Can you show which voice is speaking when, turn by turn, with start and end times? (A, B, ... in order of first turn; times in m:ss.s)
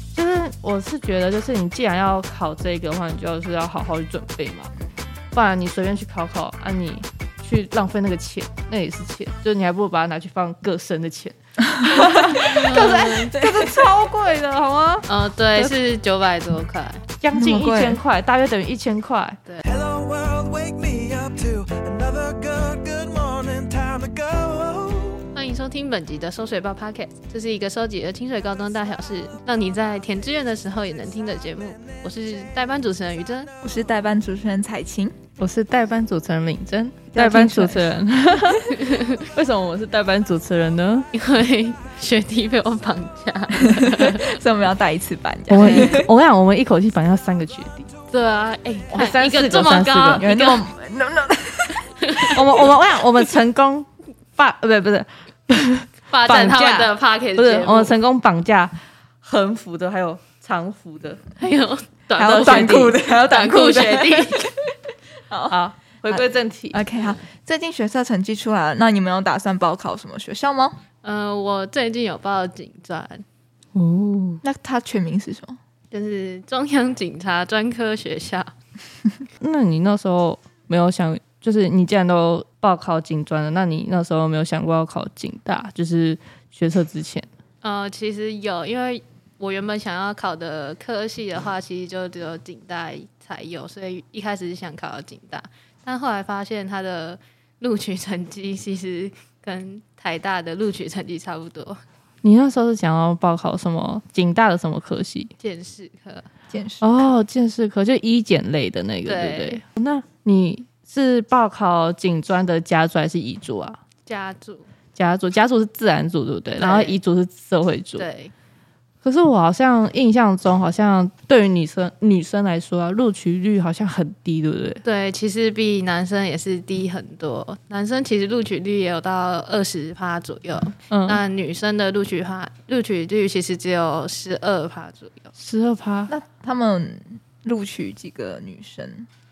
0:00.1-0:04.7 A
0:05.3-0:15.7 A
0:11.7-0:12.5 B
0:12.3-0:13.3 C
0:13.3-0:13.9 B
0:15.1-0:17.0 C
0:17.2-0:19.4 A
0:17.3-0:18.0 B
0:19.7-0:25.2 D
0:25.3-0:33.5 C
0:33.6-0:35.1 B
0:35.4-0:41.1 A
0:37.1-0:38.0 B
0:38.7-0:39.1 C
0:41.1-0:44.4 C
0:44.0-0:46.1 B
0:45.5-0:47.9 A
0:45.6-0:46.0 C
0:48.1-0:50.6 C
0:48.9-0:50.3 A
0:50.0-0:51.8 B
0:52.0-0:52.4 C
0:52.3-1:01.2 A
0:56.1-0:57.9 C
1:01.4-1:04.6 C
1:02.2-1:04.5 B
1:02.2-1:03.0 A
1:05.3-1:05.6 B
1:05.5-1:06.8 A
1:06.1-1:10.8 B
1:11.0-1:13.2 C
1:13.7-1:14.4 A
1:14.4-1:15.6 B
1:15.9-1:18.5 C
1:19.4-1:27.2 A
1:27.6-1:41.8 C
1:42.2-1:45.3 A
1:45.4-1:46.2 C
1:46.5-1:47.0 B
1:46.8-1:53.8 A
1:49.0-1:49.6 C
1:54.0-1:54.6 C
1:55.0-1:58.0 A
1:56.6-1:57.0 C
1:58.0-1:58.3 C
1:59.0-2:04.8 A
2:04.8-2:15.3 C
2:10.9-2:11.2 A
2:15.4-2:16.1 A
2:16.1-2:19.1 B